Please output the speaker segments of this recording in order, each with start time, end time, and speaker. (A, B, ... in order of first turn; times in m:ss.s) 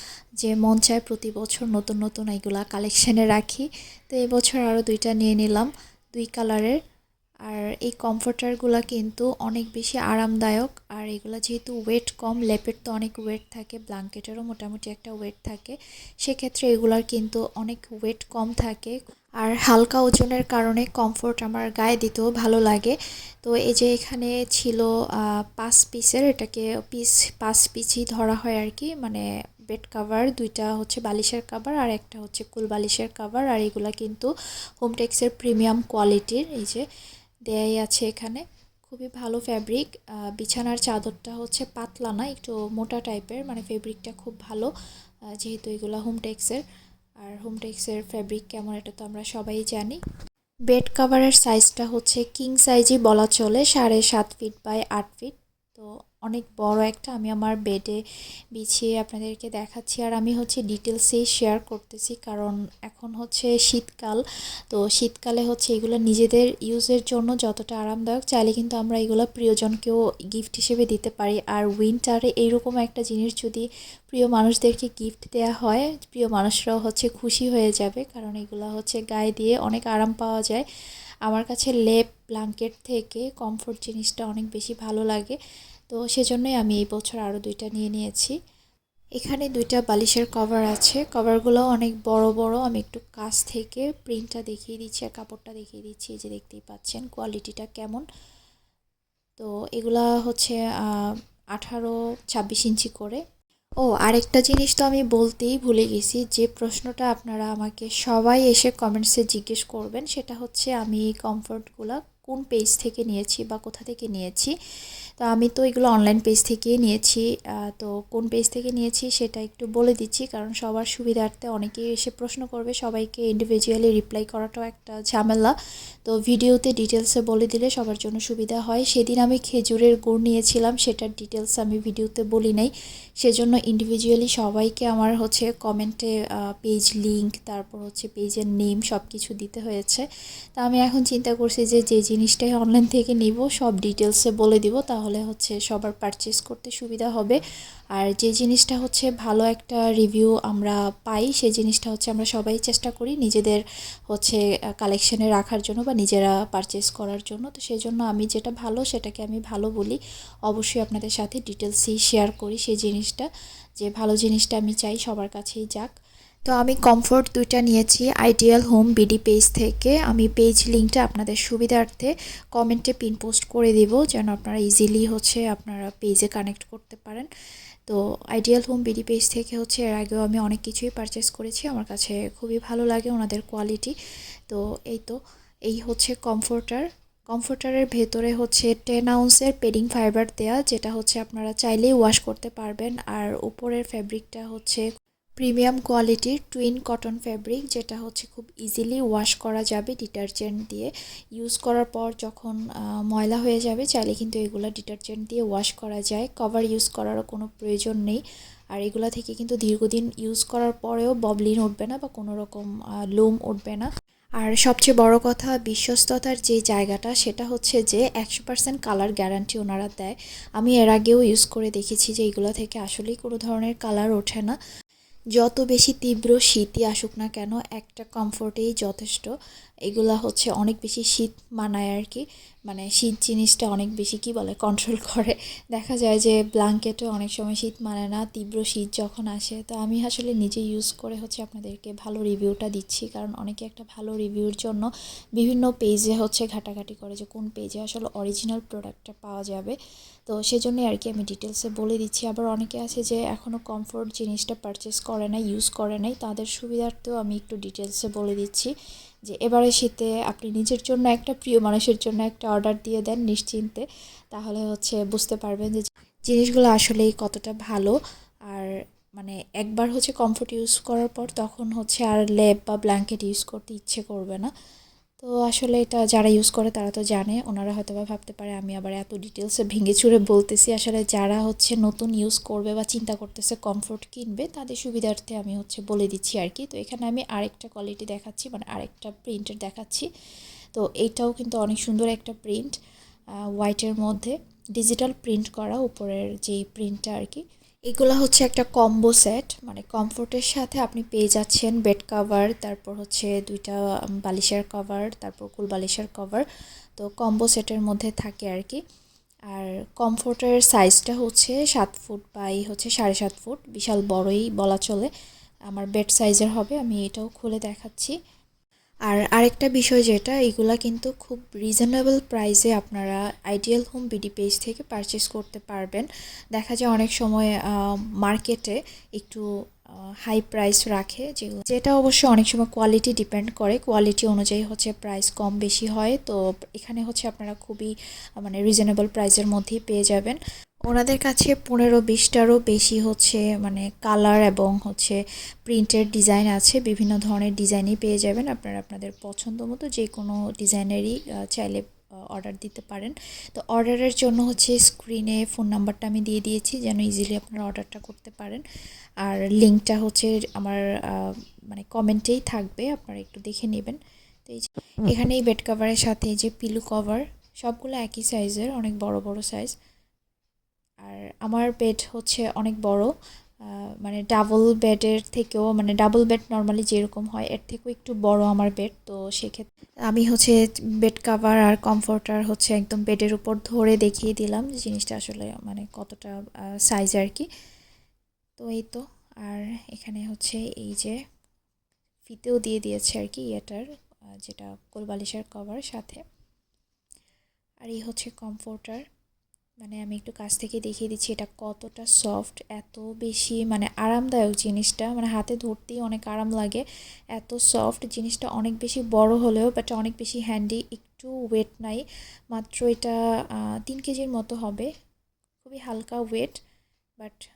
0:00.4-0:06.8 A
0:07.5-0:36.8 A
0:37.5-0:44.7 A
0:45.4-0:46.6 A
0:47.2-0:50.0 A
0:50.7-0:58.0 A
0:58.6-1:20.6 A
1:21.3-1:25.4 A
1:25.9-1:28.3 A
1:29.2-1:38.0 A
1:39.4-1:43.2 A
1:43.8-1:54.5 A
1:55.2-2:05.5 A
2:06.1-2:20.0 A
2:20.6-2:27.4 A
2:27.9-2:43.3 A
2:43.8-2:45.9 A
2:46.5-2:57.3 A
2:57.9-3:04.0 A
3:04.5-3:14.8 A
3:15.4-3:28.2 A
3:28.7-3:33.9 A
3:34.4-3:44.6 A
3:45.4-3:49.3 A
3:49.9-4:09.8 A
4:10.3-4:18.7 A
4:19.3-4:28.0 A
4:28.5-4:34.5 A
4:35.2-4:50.1 A
4:50.7-4:52.8 A
4:53.6-5:06.4 A
5:07.0-5:08.8 A
5:09.5-5:15.1 A
5:15.7-5:18.2 A
5:19.1-5:29.4 A
5:30.2-5:40.4 A
5:40.9-5:58.6 A
5:59.2-6:09.7 A
6:11.0-6:13.1 A
6:14.0-6:26.4 A
6:26.9-6:27.5 A
6:28.6-6:31.2 A
6:32.3-6:33.8 A
6:34.4-6:36.2 A
6:37.8-6:39.0 A
6:39.8-6:46.8 A
6:47.4-6:54.9 A
6:55.6-6:56.6 A